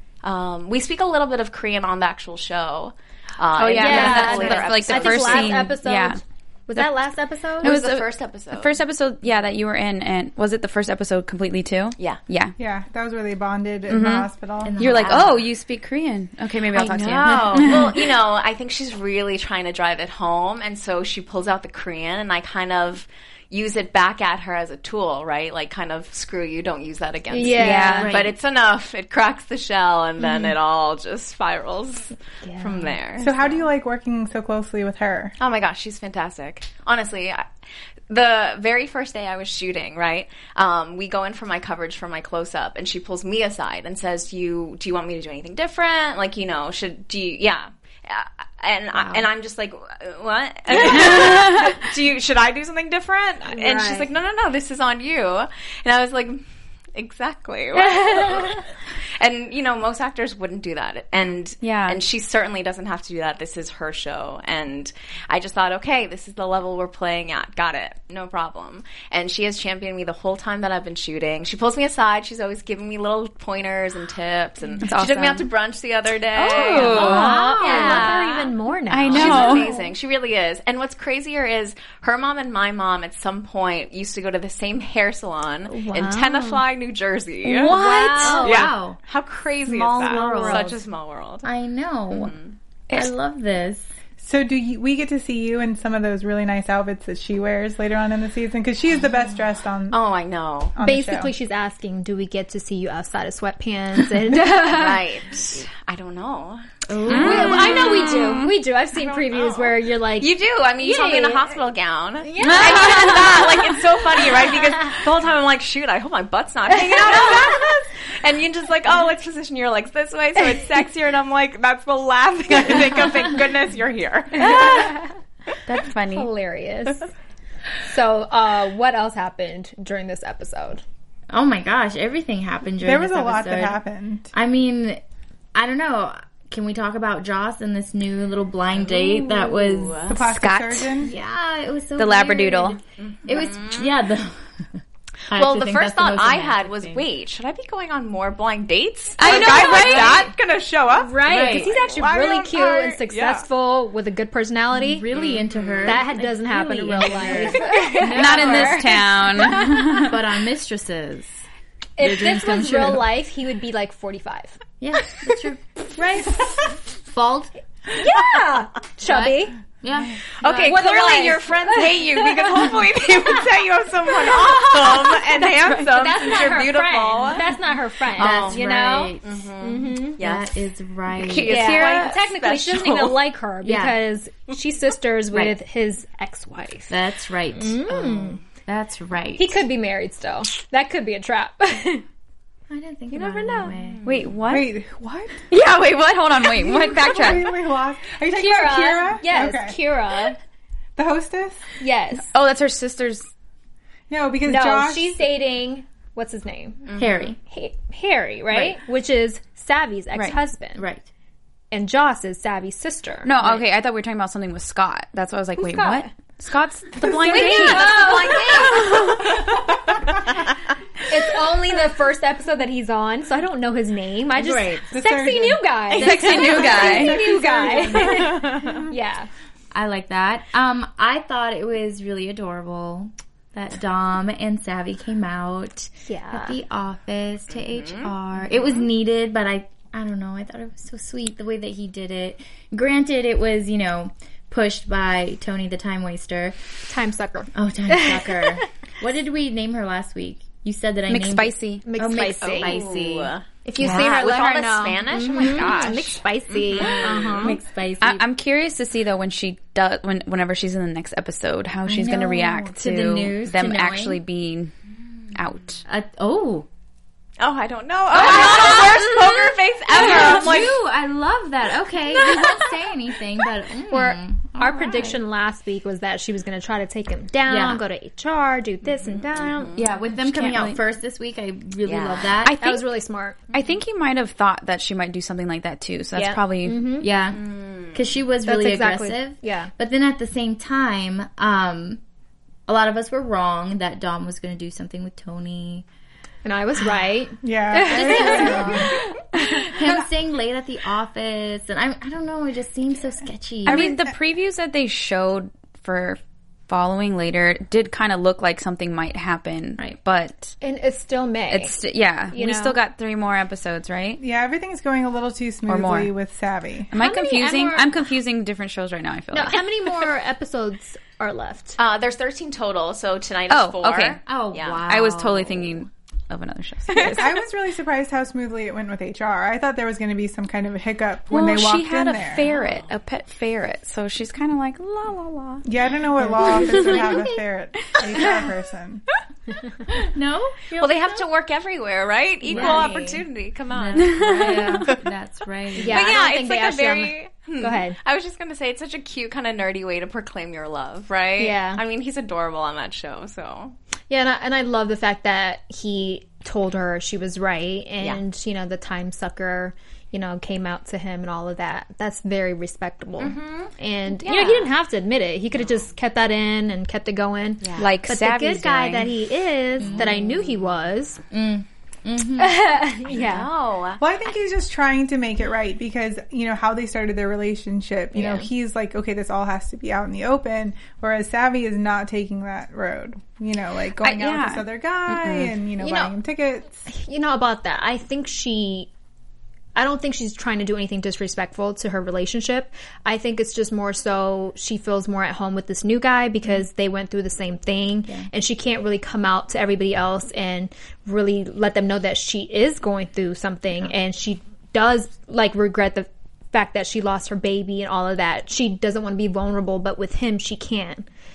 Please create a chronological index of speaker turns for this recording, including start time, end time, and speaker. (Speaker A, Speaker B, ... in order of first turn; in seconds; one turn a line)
Speaker A: 0.2-5.7
Speaker B: 3.5-6.2
Speaker C: 3.8-7.7
Speaker D: 3.8-4.8
Speaker A: 7.6-8.8
Speaker B: 7.6-12.6
Speaker E: 12.6-14.8
Speaker B: 13.9-18.0
Speaker D: 14.6-15.4
Speaker A: 14.8-15.4
Speaker A: 16.7-33.6
Speaker C: 27.3-28.1
Speaker B: 27.5-28.1
Speaker D: 27.7-28.4
Speaker C: 32.4-32.9
Speaker E: 33.2-35.4
Speaker A: 35.4-37.4
Speaker A: 38.1-56.4
Speaker B: 50.8-51.8
Speaker C: 53.5-54.1
Speaker A: 57.0-58.6
Speaker C: 57.8-58.6
Speaker A: 59.2-78.5
Speaker B: 61.6-62.0
Speaker B: 74.8-75.5
Speaker C: 76.4-79.9
Speaker B: 76.5-77.6
Speaker D: 76.8-78.2
Speaker B: 78.9-79.7
Speaker A: 79.1-91.5
Speaker C: 85.7-86.6
Speaker B: 87.5-88.5
Speaker D: 87.6-89.0
Speaker C: 87.6-88.7
Speaker D: 89.7-90.7
Speaker C: 90.1-90.8
Speaker D: 91.4-92.3
Speaker A: 92.1-92.5
Speaker D: 92.9-93.9
Speaker E: 94.2-100.0
Speaker A: 99.9-100.7
Speaker E: 100.8-101.3
Speaker C: 100.8-105.0
Speaker A: 104.6-106.6
Speaker D: 106.9-108.2
Speaker B: 107.1-108.5
Speaker C: 107.1-111.5
Speaker A: 107.4-108.2
Speaker A: 109.3-125.0
Speaker C: 112.2-113.5
Speaker B: 112.4-113.3
Speaker C: 116.7-117.6
Speaker C: 124.4-125.1
Speaker B: 125.7-126.3
Speaker C: 126.1-127.1
Speaker C: 127.8-130.8
Speaker D: 131.3-133.8
Speaker E: 132.8-134.3
Speaker D: 134.3-135.0
Speaker D: 135.5-140.0
Speaker A: 138.8-140.2
Speaker E: 140.1-141.1
Speaker B: 140.2-140.9
Speaker D: 141.0-147.1
Speaker B: 142.0-142.8
Speaker A: 143.0-143.9
Speaker A: 145.3-153.4
Speaker B: 149.2-150.2
Speaker D: 149.2-150.3
Speaker C: 149.3-150.2
Speaker C: 150.9-155.1
Speaker D: 151.2-151.8
Speaker D: 154.7-161.4
Speaker A: 155.1-156.0
Speaker C: 155.9-159.7
Speaker A: 157.3-157.8
Speaker B: 158.1-160.2
Speaker C: 162.0-164.6
Speaker D: 162.0-163.1
Speaker D: 164.8-165.9
Speaker C: 166.0-166.6
Speaker D: 167.1-167.5
Speaker C: 167.9-169.5
Speaker D: 169.1-170.8
Speaker A: 170.4-177.4
Speaker C: 170.7-172.7
Speaker C: 174.8-180.2
Speaker A: 178.2-178.7
Speaker D: 178.2-179.4
Speaker A: 179.2-180.5
Speaker D: 180.2-182.0
Speaker A: 181.1-183.2
Speaker C: 181.4-187.0
Speaker D: 183.6-184.0
Speaker D: 185.3-185.6
Speaker D: 186.9-189.6
Speaker C: 187.6-188.4
Speaker C: 189.4-192.1
Speaker D: 192.7-194.1
Speaker C: 193.1-193.8
Speaker A: 193.8-194.2
Speaker B: 194.1-194.8
Speaker E: 194.5-195.4
Speaker B: 195.5-197.6
Speaker E: 196.4-199.8
Speaker C: 198.3-200.4
Speaker E: 201.0-201.7
Speaker C: 201.8-202.3
Speaker B: 202.3-203.3
Speaker E: 204.1-205.2
Speaker C: 204.4-206.8
Speaker A: 206.9-207.3
Speaker D: 206.9-207.4
Speaker C: 207.5-210.8
Speaker D: 210.8-211.1
Speaker C: 211.7-213.3
Speaker B: 213.2-219.3
Speaker C: 215.6-216.1
Speaker C: 217.0-218.7
Speaker A: 217.3-219.6
Speaker C: 221.1-229.3
Speaker D: 224.4-224.9
Speaker E: 224.9-228.8
Speaker B: 225.9-227.3
Speaker D: 229.7-246.6
Speaker C: 236.1-236.6
Speaker A: 237.5-238.1
Speaker C: 246.9-248.6
Speaker D: 247.5-254.1
Speaker B: 251.1-251.9
Speaker C: 251.8-252.8
Speaker A: 252.4-257.5
Speaker C: 253.7-257.6
Speaker D: 256.8-258.2
Speaker B: 258.0-264.7
Speaker D: 261.9-264.2
Speaker B: 265.4-265.8
Speaker D: 265.9-266.7
Speaker A: 267.4-270.8
Speaker D: 268.1-275.2
Speaker C: 273.9-279.8
Speaker D: 277.5-277.8
Speaker A: 279.1-279.9
Speaker D: 279.8-282.6
Speaker B: 280.1-280.8
Speaker A: 281.9-282.3
Speaker B: 282.4-282.9
Speaker C: 282.6-283.4
Speaker B: 283.5-286.9
Speaker C: 286.2-287.1
Speaker D: 287.0-292.0
Speaker A: 287.3-288.1
Speaker C: 288.4-289.7
Speaker D: 292.7-295.9
Speaker C: 296.4-299.6
Speaker E: 297.4-299.0
Speaker D: 297.9-303.9
Speaker E: 303.7-304.2
Speaker B: 303.7-310.5
Speaker C: 310.6-311.8
Speaker B: 311.5-314.2
Speaker C: 312.3-312.8
Speaker E: 314.2-316.9
Speaker B: 315.7-316.1
Speaker B: 316.9-319.7
Speaker C: 317.0-318.0
Speaker C: 319.3-321.8
Speaker A: 321.8-324.9
Speaker B: 323.5-324.2
Speaker D: 324.3-325.9
Speaker B: 324.9-327.4
Speaker E: 327.0-332.4
Speaker B: 331.3-335.7
Speaker A: 332.5-332.9
Speaker E: 335.6-339.0
Speaker D: 336.2-337.4
Speaker B: 336.4-337.2
Speaker D: 339.9-341.3
Speaker A: 340.8-345.0
Speaker D: 342.5-343.1
Speaker C: 342.5-343.2
Speaker D: 343.7-346.2
Speaker B: 344.0-344.7
Speaker C: 344.4-344.8
Speaker C: 345.8-348.0
Speaker A: 345.9-353.7
Speaker C: 351.4-351.8
Speaker C: 354.1-371.2
Speaker A: 363.2-364.7
Speaker A: 367.6-367.9
Speaker B: 367.8-369.1
Speaker D: 369.8-370.2
Speaker A: 369.8-370.2
Speaker D: 371.3-372.8
Speaker C: 372.4-373.5
Speaker A: 373.1-374.0
Speaker E: 374.0-386.9
Speaker B: 384.0-385.5
Speaker A: 385.8-386.1
Speaker C: 386.9-388.9
Speaker C: 389.8-411.1